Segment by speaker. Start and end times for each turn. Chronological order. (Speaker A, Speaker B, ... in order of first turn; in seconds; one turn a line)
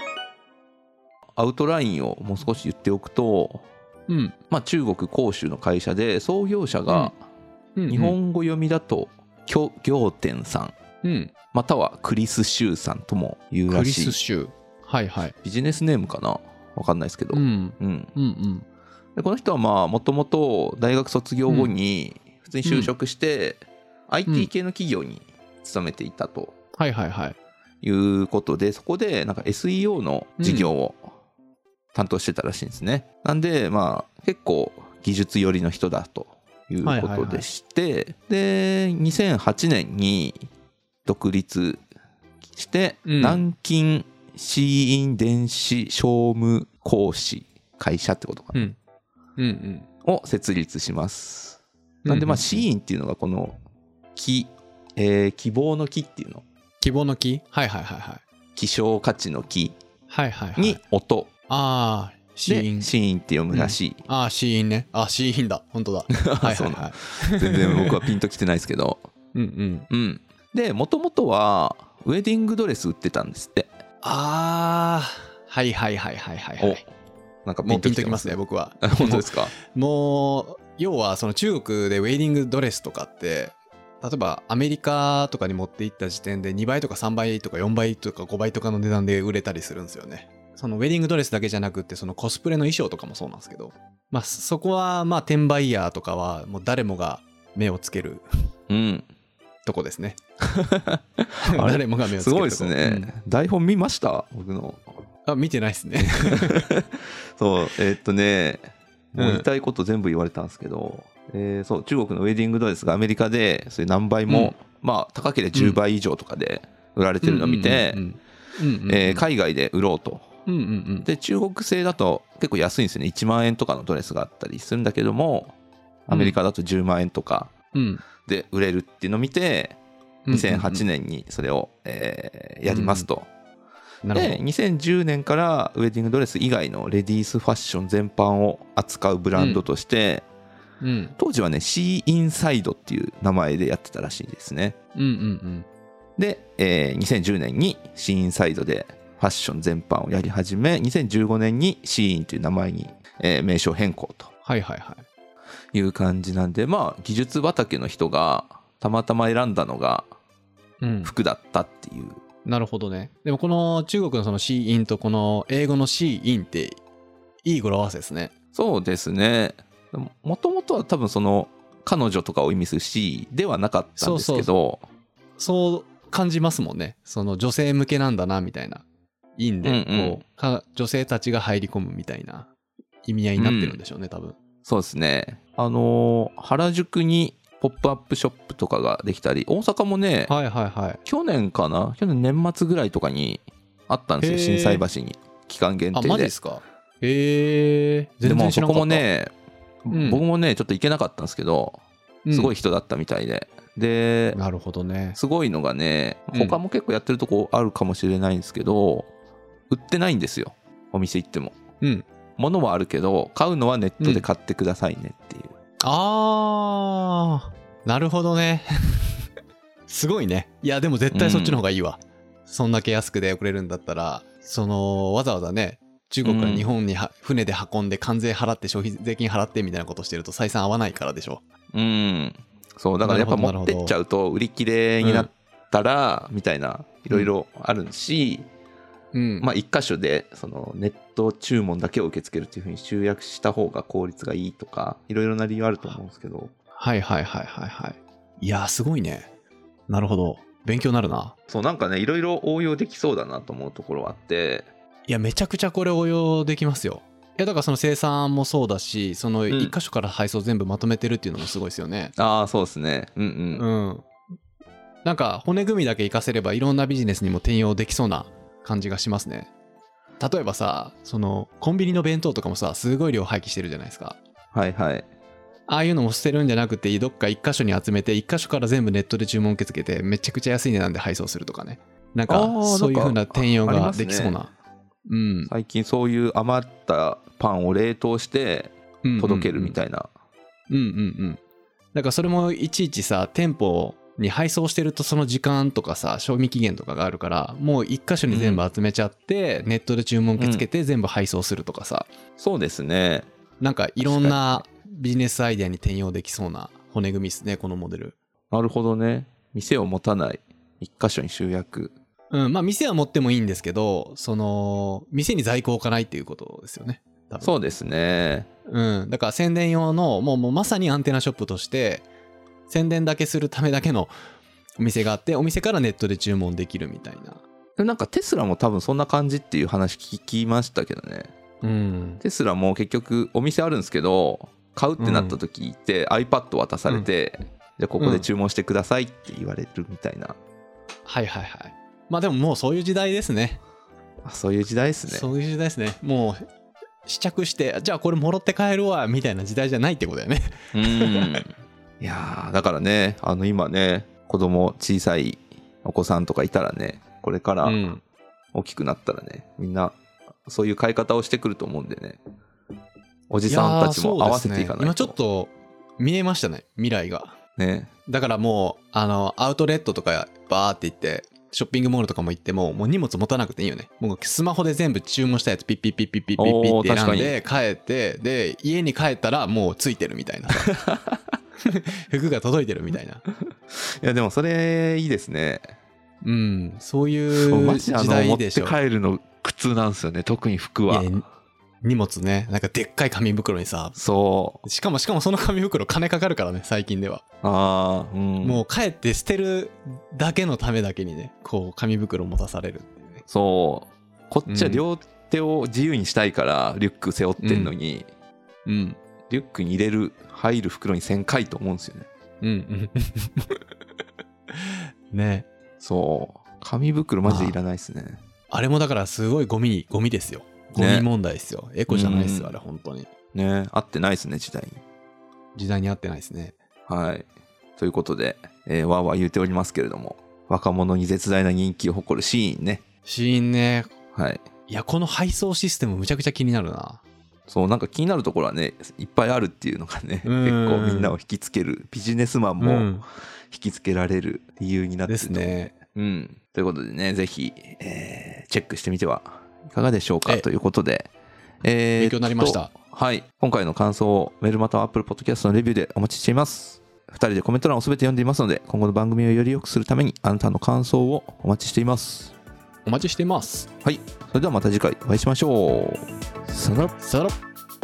Speaker A: 1.4-3.6
Speaker B: 4.1-4.4
Speaker A: 4.5-7.2
Speaker B: 7.8-8.2
Speaker A: 7.9-10.7
Speaker B: 11.0-11.3
Speaker A: 11.5-14.2
Speaker B: 13.7-15.3
Speaker A: 15.4-18.1
Speaker B: 17.3-18.6
Speaker A: 19.2-26.6
Speaker B: 21.5-21.7
Speaker B: 22.6-22.9
Speaker B: 26.8-27.4
Speaker A: 27.8-31.1
Speaker B: 30.4-30.7
Speaker A: 31.9-40.4
Speaker B: 36.8-37.5
Speaker A: 41.0-41.8
Speaker A: 42.5-48.7
Speaker B: 43.0-43.4
Speaker B: 49.4-49.9
Speaker A: 50.0-53.6
Speaker B: 52.0-52.6
Speaker A: 54.1-56.4
Speaker B: 56.8-58.2
Speaker A: 58.6-59.8
Speaker B: 60.1-60.8
Speaker A: 60.6-61.3
Speaker B: 61.5-62.9
Speaker A: 62.5-64.0
Speaker B: 63.5-68.0
Speaker A: 66.1-69.0
Speaker B: 69.3-69.9
Speaker A: 69.9-73.7
Speaker B: 74.0-76.8
Speaker A: 77.5-79.5
Speaker B: 77.7-98.2
Speaker A: 98.7-99.1
Speaker B: 99.7-100.2
Speaker A: 100.5-104.9
Speaker B: 101.4-103.1
Speaker B: 105.3-106.7
Speaker A: 106.2-118.0
Speaker B: 109.2-109.5
Speaker B: 114.3-114.5
Speaker B: 117.2-119.2
Speaker A: 118.9-120.3
Speaker B: 120.5-121.1
Speaker A: 121.0-125.5
Speaker A: 126.1-127.5
Speaker B: 126.1-126.4
Speaker B: 127.7-128.0
Speaker A: 128.2-129.8
Speaker B: 130.3-130.8
Speaker A: 130.3-133.3
Speaker B: 132.7-133.1
Speaker B: 134.0-134.4
Speaker A: 134.1-140.2
Speaker B: 139.4-139.6
Speaker B: 140.8-141.2
Speaker A: 141.2-144.8
Speaker B: 144.9-145.7
Speaker A: 146.2-154.3
Speaker B: 154.5-155.1
Speaker A: 155.7-160.1
Speaker B: 160.8-161.1
Speaker A: 161.0-162.2
Speaker B: 162.4-166.8
Speaker B: 167.4-168.3
Speaker A: 168.5-174.8
Speaker B: 174.0-174.5
Speaker B: 175.4-178.8
Speaker B: 179.4-182.5
Speaker A: 179.6-180.2
Speaker B: 183.1-184.4
Speaker A: 183.4-183.8
Speaker A: 184.6-190.3
Speaker B: 190.3-191.0
Speaker A: 191.1-196.3
Speaker B: 194.2-194.8
Speaker B: 195.9-199.1
Speaker A: 198.2-199.3
Speaker A: 199.8-201.8
Speaker B: 199.9-200.2
Speaker B: 202.3-202.5
Speaker A: 202.3-204.4
Speaker B: 204.3-205.2
Speaker A: 205.1-209.1
Speaker B: 206.3-206.6
Speaker A: 209.7-211.6
Speaker B: 211.8-212.1
Speaker A: 212.4-215.5
Speaker B: 215.8-219.2
Speaker B: 219.9-231.4
Speaker A: 221.1-221.6
Speaker A: 226.2-226.7
Speaker A: 231.7-238.5
Speaker B: 233.0-233.9
Speaker B: 235.0-235.3
Speaker B: 239.1-239.5
Speaker A: 239.4-246.5
Speaker B: 246.8-249.3
Speaker B: 249.9-251.3
Speaker A: 251.5-254.7
Speaker B: 255.1-262.1
Speaker A: 259.5-259.8
Speaker A: 262.2-263.6
Speaker B: 263.6-264.1
Speaker B: 265.0-269.5
Speaker B: 270.2-274.2
Speaker A: 274.5-275.1
Speaker B: 275.7-284.5
Speaker A: 282.3-284.4
Speaker B: 285.1-285.5
Speaker A: 285.5-290.1
Speaker B: 289.0-289.8
Speaker B: 290.7-291.4
Speaker B: 291.9-302.1
Speaker A: 298.3-298.6
Speaker A: 300.4-300.6
Speaker A: 302.4-303.3
Speaker B: 303.6-308.1
Speaker A: 304.0-304.6
Speaker A: 308.5-311.9
Speaker B: 312.3-317.5
Speaker A: 317.4-318.5
Speaker B: 318.7-322.1
Speaker B: 322.7-324.1
Speaker B: 324.8-327.4
Speaker A: 327.8-331.3
Speaker B: 331.6-332.2
Speaker A: 332.2-340.4
Speaker B: 335.0-335.4
Speaker B: 338.0-338.3
Speaker B: 341.1-343.6
Speaker A: 344.2-345.3
Speaker B: 345.1-346.5
Speaker B: 347.1-351.4
Speaker A: 350.7-357.8
Speaker B: 357.6-358.0
Speaker A: 358.5-362.2
Speaker A: 363.3-365.2
Speaker B: 363.5-367.4
Speaker A: 367.6-367.9
Speaker B: 368.1-380.7
Speaker A: 376.4-377.4
Speaker A: 380.6-381.4
Speaker B: 381.6-383.2
Speaker A: 383.7-385.6
Speaker B: 386.2-388.8
Speaker A: 387.4-391.1
Speaker B: 390.9-391.2
Speaker B: 391.8-394.0
Speaker A: 394.0-394.6
Speaker B: 394.6-397.2
Speaker A: 397.4-398.6
Speaker B: 398.4-403.2
Speaker A: 403.3-408.1
Speaker B: 404.5-404.8
Speaker B: 407.4-407.7
Speaker B: 408.7-409.0
Speaker A: 409.3-412.1
Speaker B: 412.4-413.6
Speaker B: 414.5-415.5
Speaker A: 415.8-418.2
Speaker B: 417.2-417.6
Speaker B: 418.5-423.1
Speaker A: 420.8-421.1
Speaker A: 421.9-422.6
Speaker A: 423.3-424.8
Speaker B: 425.6-426.6
Speaker A: 426.9-427.3
Speaker A: 427.8-432.8
Speaker B: 433.1-433.9
Speaker A: 434.1-434.5
Speaker B: 434.7-437.0
Speaker A: 437.5-451.1
Speaker B: 440.2-441.2
Speaker B: 442.6-443.0
Speaker B: 445.1-445.8
Speaker A: 451.6-462.3
Speaker B: 452.0-452.7
Speaker B: 462.9-463.7
Speaker A: 463.8-467.0
Speaker B: 467.0-467.4